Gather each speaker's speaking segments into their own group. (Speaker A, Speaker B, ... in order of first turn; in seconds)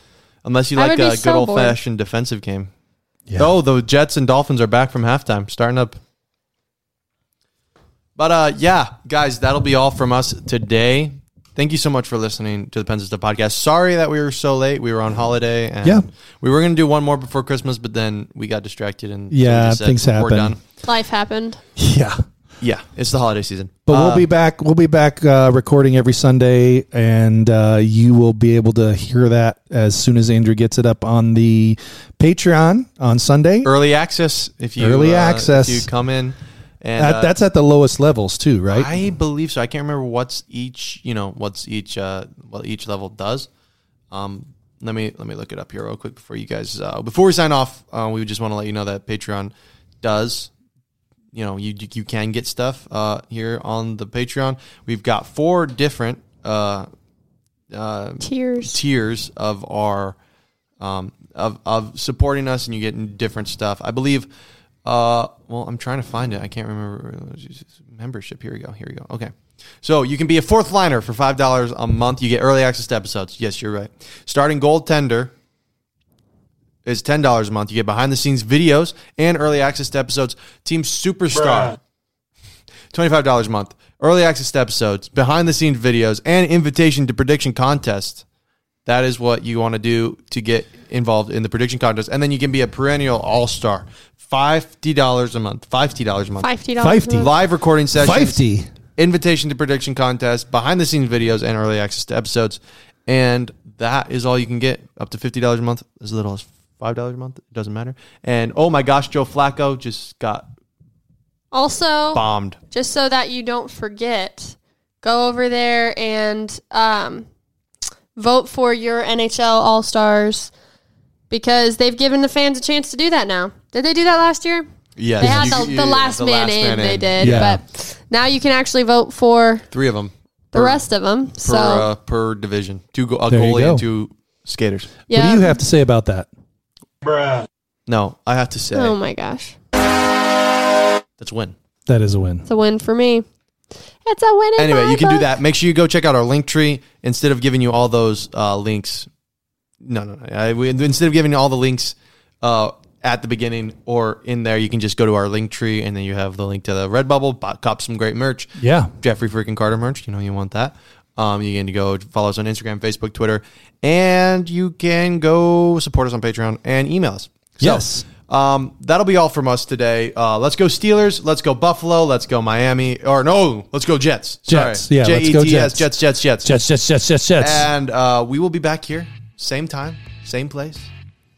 Speaker A: 0.4-2.7, 3.4-6.0, 8.2-20.6, 22.6-24.3, 33.6-37.3, 38.7-43.5, 44.1-50.5, 51.3-56.9, 57.7-60.2, 60.8-64.3, 64.8-75.3, 76.8-81.8, 82.9-88.2, 88.9-96.5, 97.2-98.4, 99.0-110.5, 112.1-112.6, 125.0-127.5, 129.7-130.8, 131.4-135.0, 137.9-139.0, 141.2-141.5, 144.6-149.1, 149.8-176.5, 177.4-180.9
Speaker B: 0.8-1.8, 20.8-21.6, 58.2-58.8, 96.4-97.3, 111.5-117.3, 118.2-120.5, 121.3-124.7, 125.2-129.7, 130.5-131.9, 135.1-135.6, 138.7-139.6, 142.5-143.2, 144.1-145.3
Speaker C: 19.3-20.6, 21.8-22.2, 23.9-33.7, 34.8-35.9, 37.0-38.9, 96.8-97.3, 97.9-98.7, 125.2-125.7, 127.2-127.6, 133.3-133.8, 135.1-136.3, 141.9-142.5, 158.6-158.9, 167.6-168.1, 174.5-175.9, 176.4-177.7